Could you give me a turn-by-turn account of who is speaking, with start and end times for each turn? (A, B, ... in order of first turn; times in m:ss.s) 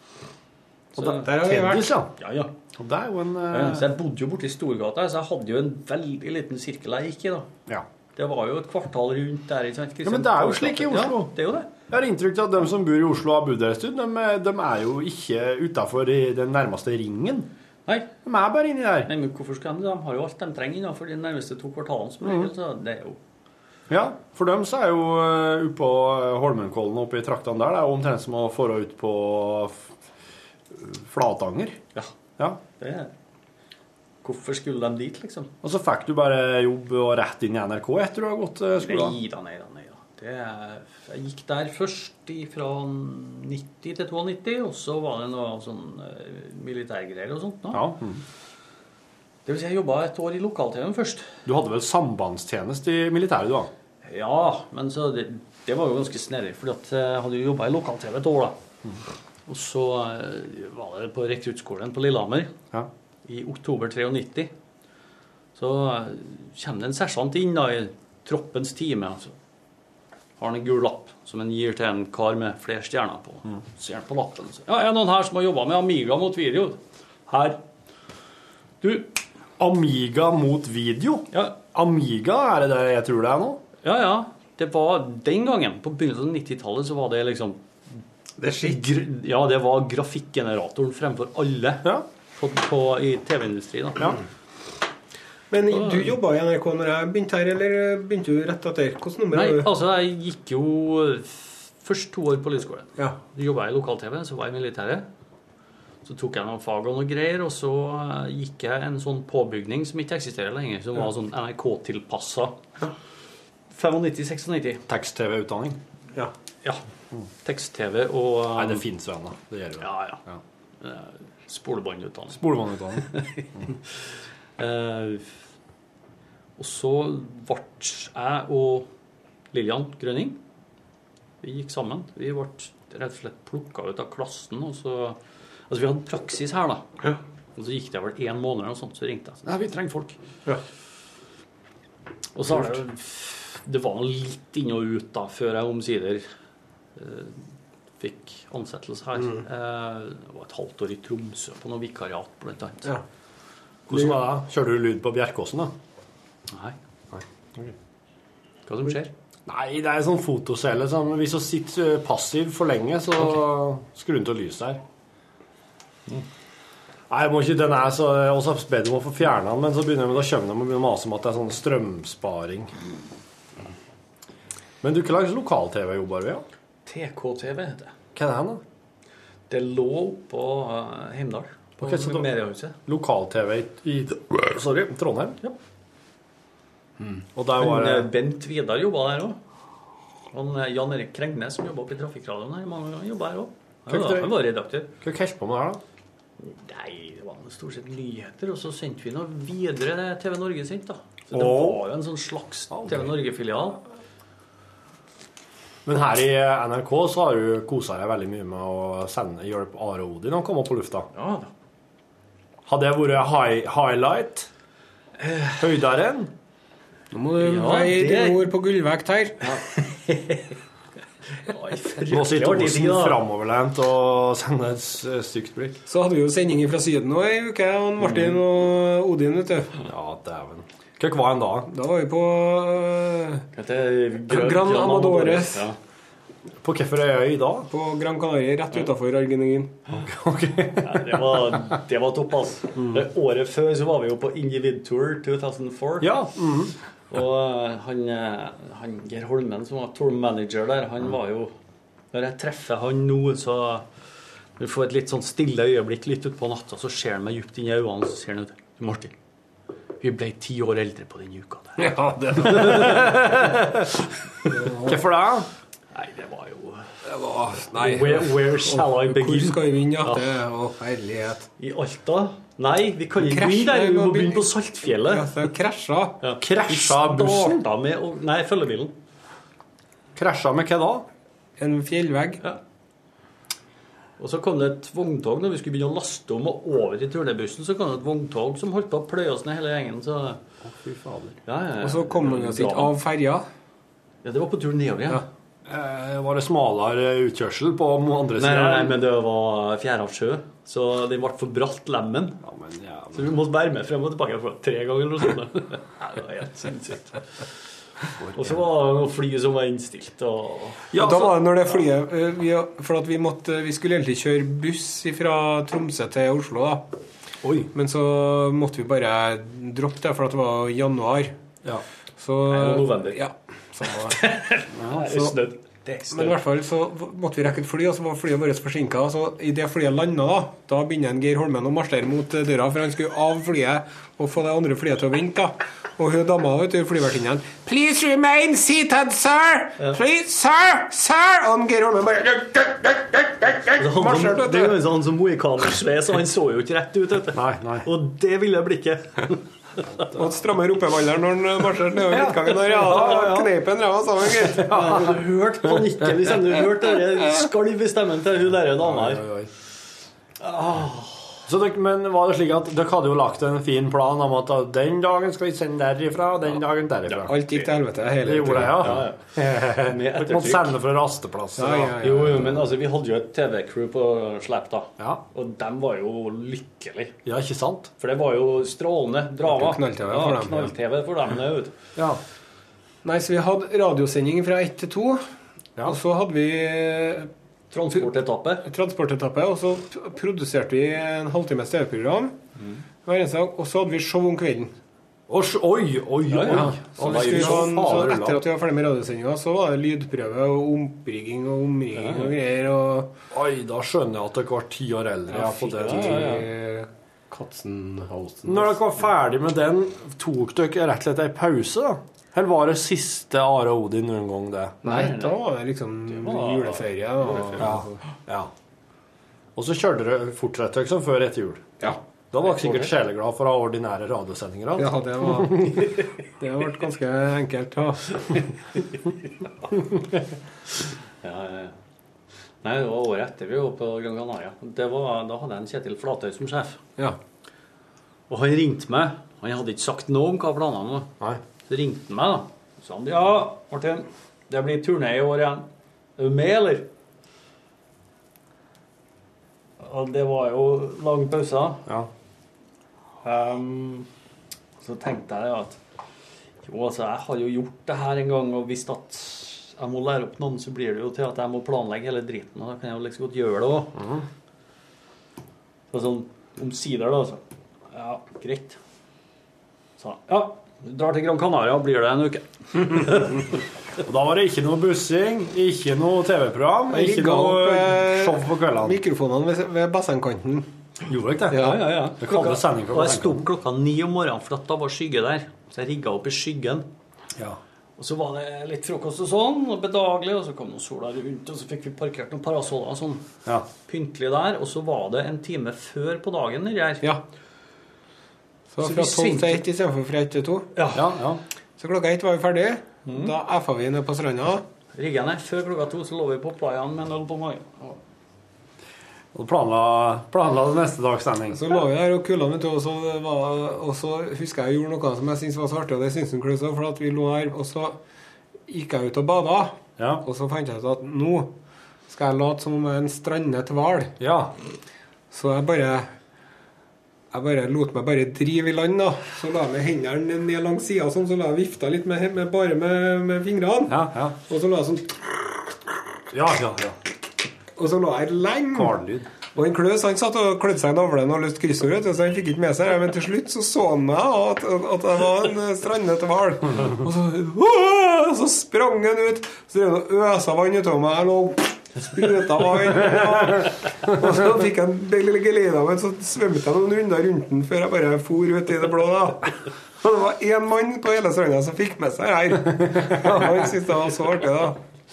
0:01.0-0:01.3 A
0:01.0-0:02.0 B
0:01.0-0:02.1 C
0:02.2-0:02.6 A
0:02.7-0:03.9 C
0:03.5-0:07.5 A
0:08.2-0:11.7 A
0:10.0-0:11.4 C
0:11.9-0:17.5 C
0:17.9-0:18.2 A
0:18.2-0:19.1 C
0:19.1-0:23.2 A
0:23.9-0:29.9 C
0:30.7-0:31.8 C
0:32.7-0:33.1 A
0:34.2-0:35.5 A
0:35.6-0:39.2 C
0:38.8-0:47.9 A
0:47.7-0:48.2 C
0:49.5-0:51.3 A
0:51.5-0:53.7 C
0:54.0-0:58.6 A
0:59.5-1:02.5 A
1:03.2-1:04.5 A
1:05.6-1:09.3 A
1:10.4-1:17.6 A
1:18.8-1:19.1 A
1:19.6-1:23.6 C
1:21.3-1:21.6 A
1:23.8-1:27.6 A
1:28.4-1:28.8 B
1:28.4-1:34.2 A
1:35.5-1:39.7 B
1:35.7-1:36.1 A
1:39.3-1:45.1 A
1:46.0-1:52.6 A
1:53.7-1:54.8 A
1:54.9-1:55.8 C
1:57.4-1:58.8 A
1:58.5-2:00.4 C
1:59.8-2:00.2 A
2:00.8-2:03.8 A
2:02.3-2:03.1 C
2:04.6-2:05.3 A
2:06.6-2:08.9 A
2:09.5-2:10.4 A
2:11.4-2:15.2 A
2:15.7-2:16.9 A
2:17.6-2:20.2 A
2:22.4-2:26.2 A
2:27.0-2:27.4 A
2:28.0-2:32.9 A
2:33.9-2:35.7 C
2:36.5-2:36.8 A
2:37.1-2:37.7 C
2:38.7-2:39.1 A
2:39.5-2:44.8 C
2:47.1-2:52.7 C
2:54.8-2:56.4 C
2:56.9-2:57.9 A
2:58.2-2:58.6 C
2:59.5-3:02.8 A
3:01.8-3:02.3 C
3:02.8-3:05.4 C
3:07.0-3:08.1 C
3:07.6-3:09.4 A
3:10.3-3:14.9 A
3:13.9-3:14.4 C
3:15.0-3:15.8 C
3:16.4-3:23.8 A
3:21.3-3:21.8 C
3:22.7-3:23.1 C
3:25.8-3:31.1 C
3:31.1-3:31.5 A
3:32.7-3:34.5 C
3:35.2-3:35.6 A
3:35.5-3:36.3 C
3:37.1-3:39.4 B
3:37.4-3:38.5 A
3:39.4-3:40.6 A
3:41.5-3:43.2 A
3:42.1-3:45.8 C
3:45.9-3:49.8 B
3:49.8-3:51.7 C
3:51.7-3:53.4 B
3:53.5-3:55.8 A
3:54.3-3:55.6 B
3:56.6-3:57.7 C
3:57.7-3:59.8 B
3:59.9-4:01.7 C
4:00.8-4:06.3 A
4:06.0-4:06.7 C
4:07.1-4:11.5 A
4:12.1-4:13.9 A
4:14.6-4:19.1 A
4:20.0-4:23.8 A
4:21.8-4:23.1 B
4:22.4-4:23.8 C
4:24.5-4:25.0 B
4:24.8-4:25.5 C
4:25.9-4:26.9 A
4:27.0-4:31.5 B
4:27.7-4:30.3 A
4:31.6-4:35.3 A
4:33.2-4:34.5 B
4:35.0-4:36.2 B
4:36.2-4:38.9 A
4:36.4-4:37.7 C
4:40.2-4:41.1 C
4:41.6-4:42.4 B
4:44.2-4:50.4 A
4:50.6-4:51.4 C
4:51.5-4:53.0 A
4:51.8-4:53.4 B
4:54.2-4:55.2 A
4:55.7-4:59.0 C
4:58.4-5:02.4 A
5:02.4-5:03.3 C
5:03.1-5:07.2 A
5:08.2-5:08.6 C
5:08.3-5:11.0 A
5:10.9-5:11.7 C
5:10.9-5:16.9 B
5:17.4-5:17.7 C
5:17.7-5:21.3 B
5:22.2-5:24.2 B
5:22.5-5:23.2 A
5:24.1-5:26.4 A
5:24.8-5:25.3 C
5:26.1-5:44.8 B
5:43.8-5:49.8 A
5:47.3-5:47.9 C
5:50.1-5:54.8 B
5:52.1-5:53.4 C
5:52.7-5:53.5 A
5:54.5-5:55.7 C
5:54.6-5:59.3 A
5:58.8-5:59.5 C
6:00.4-6:01.4 A
6:01.5-6:07.4 C
6:07.1-6:07.7 A
6:07.2-6:09.0 B
6:08.2-6:12.6 C
6:08.7-6:10.8 A
6:11.6-6:12.4 B
6:12.0-6:17.2 A
6:17.2-6:17.9 C
6:18.0-6:21.7 A
6:19.5-6:20.7 B
6:22.0-6:22.2 C
6:23.0-6:25.2 B
6:25.8-6:27.3 B
6:27.7-6:28.7 A
6:28.6-6:32.4 B
6:33.0-6:34.7 B
6:35.3-6:38.4 C
6:36.3-6:38.3 A
6:36.4-6:43.1 B
6:42.0-6:42.3 A
6:43.3-6:46.4 C
6:45.3-6:46.5 A
6:45.4-6:48.8 B
6:48.4-6:55.1 C
6:54.8-6:58.0 B
6:54.9-6:55.4 A
6:56.1-6:57.8 A
6:57.6-6:58.5 C
6:59.6-7:05.9 C
7:04.8-7:08.5 B
7:11.2-7:11.7 A
7:12.6-7:16.8 A
7:18.3-7:21.1 A
7:21.7-7:25.7 A
7:26.2-7:26.9 A
7:29.8-7:31.9 A
7:33.2-7:34.1 A
7:34.8-7:35.8 A
7:36.6-7:44.0 A
7:44.0-7:44.2 C
7:45.9-7:48.8 A
7:50.0-7:53.5 A
7:54.0-7:59.0 C
7:56.9-8:00.7 B
8:01.0-8:03.5 C
8:01.5-8:01.9 B
8:01.5-8:06.9 A
8:08.0-8:17.0 A
8:18.7-8:20.7 B
8:18.8-8:19.6 A
8:20.8-8:21.2 A
8:20.9-8:21.4 C
8:21.8-8:24.6 B
8:23.1-8:23.3 A
8:24.9-8:28.0 A
8:29.3-8:31.6 C
8:31.5-8:38.0 B
8:38.7-8:41.5 B
8:40.0-8:40.2 C
8:42.1-8:44.2 B
8:44.2-8:44.6 C
8:45.3-8:46.1 B
8:47.3-8:55.4 B
8:53.9-8:54.4 C
8:56.3-8:57.0 C
8:57.8-8:59.0 B
8:58.7-8:59.3 C
8:59.5-9:24.8 B